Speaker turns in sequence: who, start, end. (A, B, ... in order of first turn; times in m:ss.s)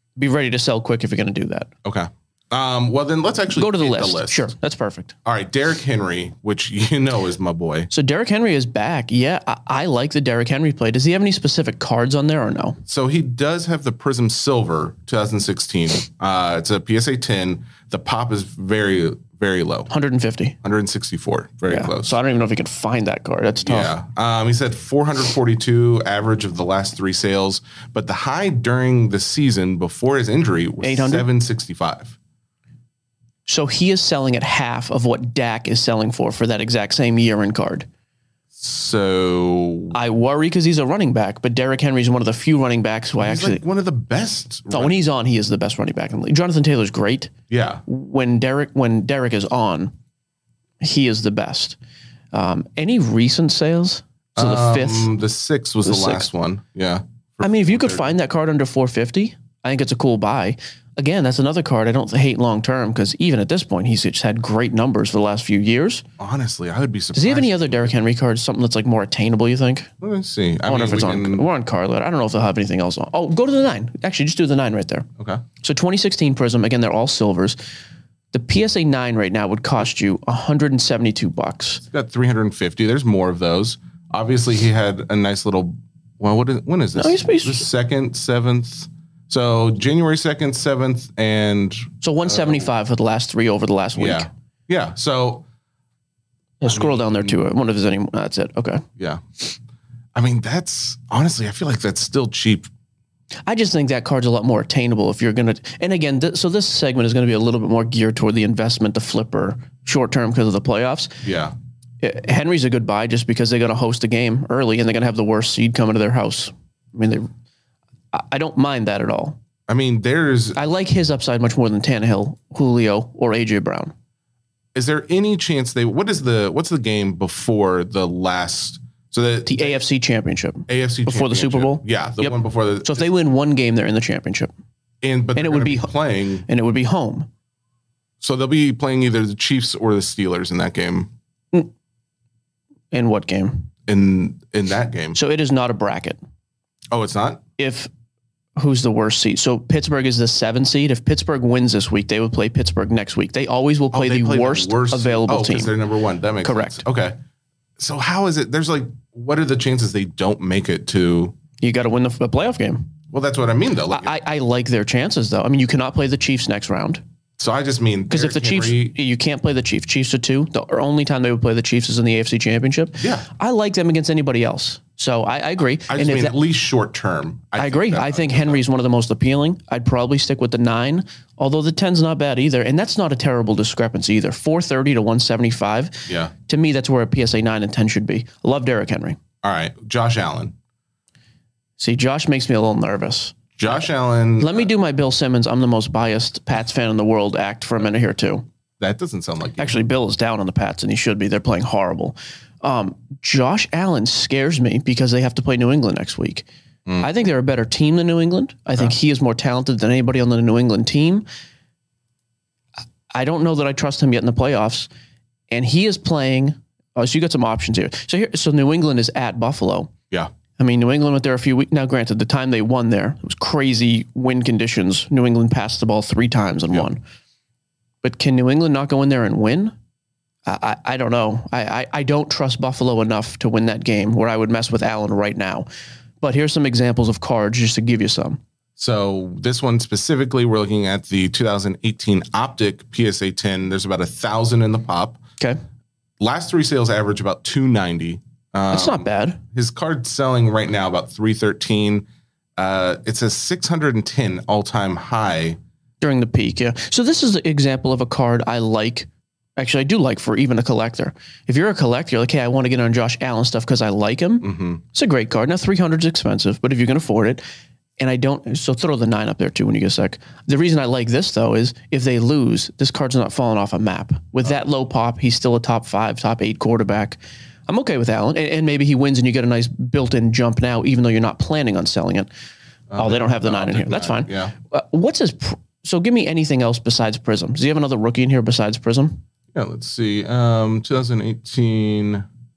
0:00.2-0:01.7 A
0:01.8-0:04.5 B
0:03.6-0:05.1 A
0:05.2-0:07.9 B
0:07.9-0:12.8 A
0:12.9-0:19.9 B
0:19.9-0:20.6 A
0:20.6-0:22.2 B
0:21.7-0:23.9 A
0:23.6-0:32.2 B
0:30.8-0:31.3 A
0:33.5-0:37.9 A
0:38.6-0:40.0 B
0:39.9-0:43.6 A
0:43.2-0:45.0 B
0:44.7-0:47.3 A
0:47.5-0:47.8 B
0:47.9-0:49.9 A
0:50.8-0:51.8 A
0:52.3-0:55.1 A
0:54.4-0:58.1 B
0:55.8-0:56.3 A
0:57.4-1:06.0 A
1:06.2-1:08.0 B
1:07.1-1:09.9 A
1:10.0-1:11.5 B
1:10.7-1:15.1 A
1:15.6-1:17.6 A
1:18.3-1:21.8 A
1:21.9-1:32.7 B
1:27.0-1:27.7 A
1:32.0-1:34.3 A
1:34.0-1:35.4 B
1:36.6-1:38.8 A
1:36.6-1:37.4 B
1:39.0-1:39.2 B
1:40.2-1:42.7 B
1:43.5-1:51.2 A
1:51.2-1:51.6 B
1:52.0-1:57.3 A
1:58.1-1:59.4 A
1:59.7-2:00.6 B
2:00.6-2:03.9 A
2:04.8-2:09.8 B
2:09.5-2:14.5 A
2:10.7-2:13.1 B
2:15.0-2:16.5 B
2:15.4-2:15.9 A
2:16.4-2:17.3 A
2:18.2-2:21.1 B
2:22.9-2:23.7 A
2:23.9-2:25.2 B
2:25.2-2:26.2 A
2:26.9-2:27.4 B
2:27.6-2:27.9 A
2:28.6-2:35.8 A
2:33.9-2:37.2 B
2:36.4-2:36.8 A
2:37.8-2:41.4 B
2:41.6-2:42.9 A
2:43.1-2:44.2 B
2:43.9-2:47.0 A
2:47.4-2:49.0 B
2:48.1-2:56.4 A
2:53.0-2:53.3 B
2:55.9-2:58.6 B
2:57.6-3:09.2 A
3:06.1-3:06.3 B
3:09.4-3:10.5 B
3:11.8-3:13.8 A
3:13.6-3:14.7 B
3:14.4-3:18.4 A
3:18.8-3:19.8 B
3:19.6-3:26.5 A
3:26.9-3:27.1 B
3:27.0-3:31.3 A
3:33.1-3:34.9 A
3:35.5-3:39.9 A
3:40.6-3:47.0 A
3:48.0-3:49.8 A
3:50.5-3:55.7 A
3:56.2-3:58.4 A
3:58.8-4:05.2 B
4:06.2-4:12.1 B
4:08.7-4:09.4 A
4:12.6-4:15.6 B
4:16.0-4:27.4 A
4:24.4-4:24.8 B
4:28.0-4:42.3 A
4:42.9-4:44.6 B
4:43.0-4:49.2 A
4:49.5-4:52.3 B